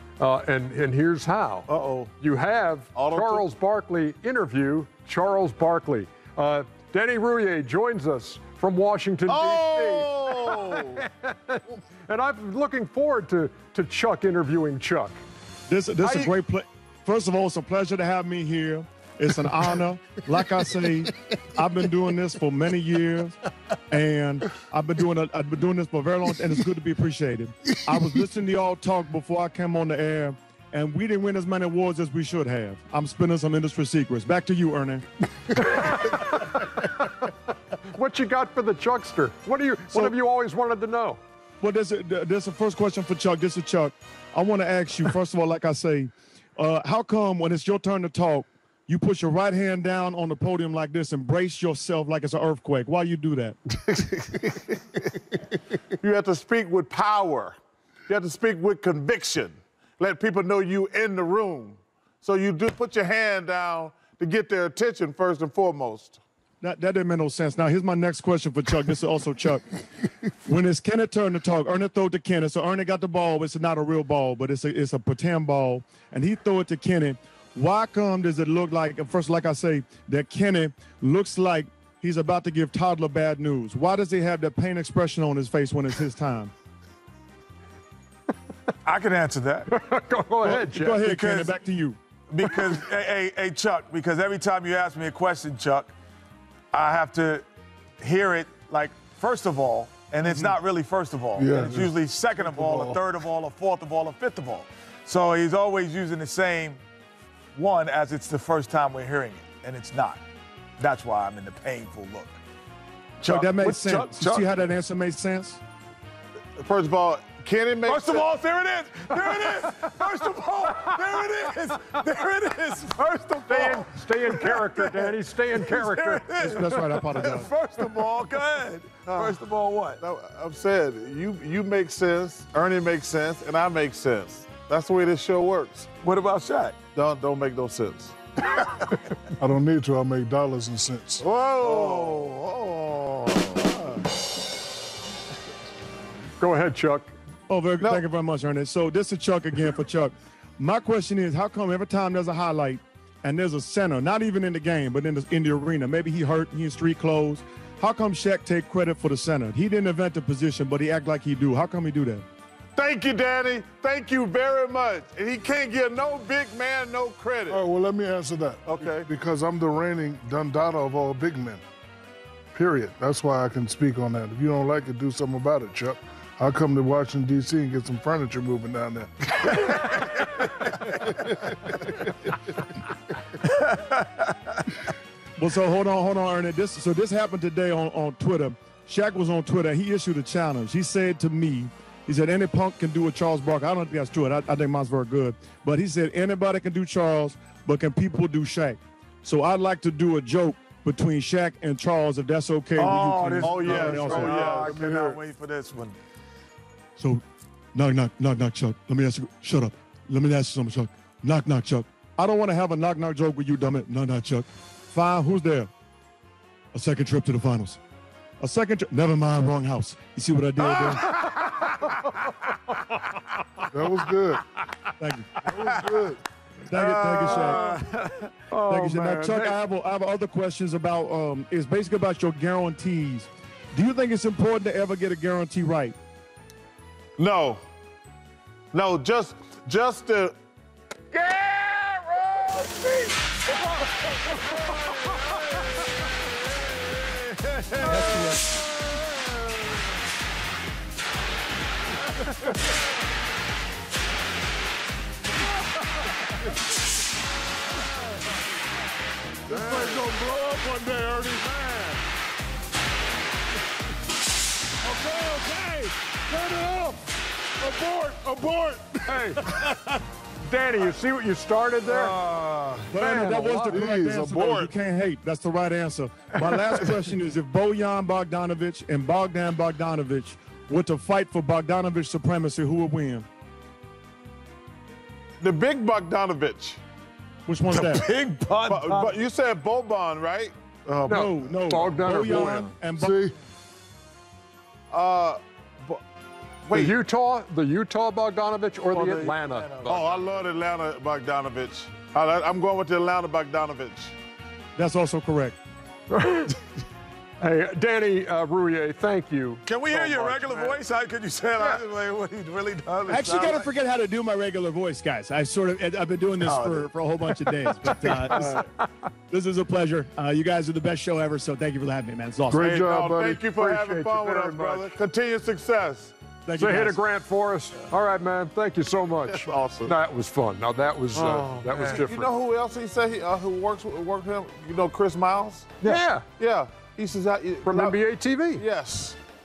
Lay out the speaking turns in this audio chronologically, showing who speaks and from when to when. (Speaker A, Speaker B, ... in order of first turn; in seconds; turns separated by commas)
Speaker A: 0.2-15.2, Speaker B: 1.7-2.1, Speaker B: 3.0-3.5, Speaker B: 9.3-11.0, Speaker C: 15.7-23.4, Speaker A: 16.0-16.3, Speaker C: 23.9-35.0, Speaker A: 35.5-41.2, Speaker C: 39.9-40.1, Speaker C: 41.6-53.6, Speaker B: 53.9-54.8, Speaker B: 56.0-66.2, Speaker C: 66.6-69.7, Speaker C: 70.5-86.5, Speaker D: 88.8-89.7, Speaker A: 89.7-91.1, Speaker C: 90.4-92.0, Speaker D: 90.8-91.6, Speaker D: 92.3-95.9, Speaker D: 96.7-97.5, Speaker D: 98.0-106.8, Speaker E: 101.4-103.0, Speaker D: 107.5-110.2, Speaker D: 110.8-112.4, Speaker D: 113.2-114.5, Speaker C: 113.2-115.6, Speaker B: 116.6-118.3, Speaker D: 117.9-130.0, Speaker A: 119.2-119.9, Speaker A: 123.0-126.5, Speaker C: 126.4-127.5, Speaker B: 129.1-129.4, Speaker B: 130.0-135.9, Speaker D: 136.0-136.8, Speaker B: 136.9-138.7, Speaker E: 139.4-141.2, Speaker B: 141.2-144.0, Speaker D: 141.6-142.4, Speaker A: 146.4-147.1, Speaker C: 147.5-162.2, Speaker B: 162.8-167.6, Speaker E: 167.5-171.6, Speaker B: 168.7-169.1, Speaker E: 172.5-180.0, Speaker D: 183.5-184.2, Speaker C: 185.4-204.4, Speaker D: 202.8-206.0, Speaker B: 203.4-204.8, Speaker E: 203.7-205.2, Speaker C: 207.0-207.2, Speaker C: 207.7-215.7, Speaker C: 216.7-217.8, Speaker C: 218.4-221.1, Speaker D: 220.7-221.8, Speaker E: 223.7-224.4, Speaker C: 225.0-225.4, Speaker E: 225.5-226.2, Speaker D: 225.5-225.9, Speaker C: 226.7-227.6, Speaker D: 226.7-228.3, Speaker B: 226.8-227.8, Speaker A: 227.6-227.9, Speaker A: 228.5-229.6, Speaker C: 228.6-236.0, Speaker B: 237.2-237.6, Speaker B: 238.7-240.3, Speaker D: 241.2-241.8, Speaker B: 241.9-242.8, Speaker D: 247.8-248.3, Speaker C: 248.1-248.4, Speaker E: 259.5-262.0, Speaker B: 259.6-260.0, Speaker E: 264.9-267.0, Speaker E: 267.6-269.7, Speaker A: 269.1-269.5, Speaker A: 270.4-272.2, Speaker B: 271.9-272.9, Speaker C: 272.9-283.3, Speaker A: 272.9-273.9, Speaker E: 273.7-274.5, Speaker B: 274.1-274.7, Speaker B: 285.4-286.8, Speaker C: 287.5-288.1, Speaker D: 287.7-289.2, Speaker B: 288.7-291.4, Speaker A: 291.1-292.8, Speaker C: 291.1-293.2, Speaker E: 293.0-293.4, Speaker B: 294.9-296.0, Speaker B: 296.6-297.0, Speaker A: 296.7-300.2, Speaker D: 298.9-300.4, Speaker B: 299.9-304.1, Speaker C: 304.8-305.6, Speaker A: 306.1-306.6, Speaker A: 307.4-310.7, Speaker D: 309.7-313.7, Speaker C: 313.1-318.7, Speaker D: 316.4-316.9, Speaker A: 317.7-318.7, Speaker C: 319.3-322.7, Speaker E: 322.5-323.6, Speaker B: 322.6-326.1, Speaker A: 323.6-324.9, Speaker C: 326.5-327.0, Speaker A: 326.5-332.3, Speaker B: 329.3-329.9, Speaker B: 331.1-338.0, Speaker D: 331.7-332.0, Speaker A: 335.8-336.2, Speaker A: 337.6-338.6, Speaker B: 338.6-339.2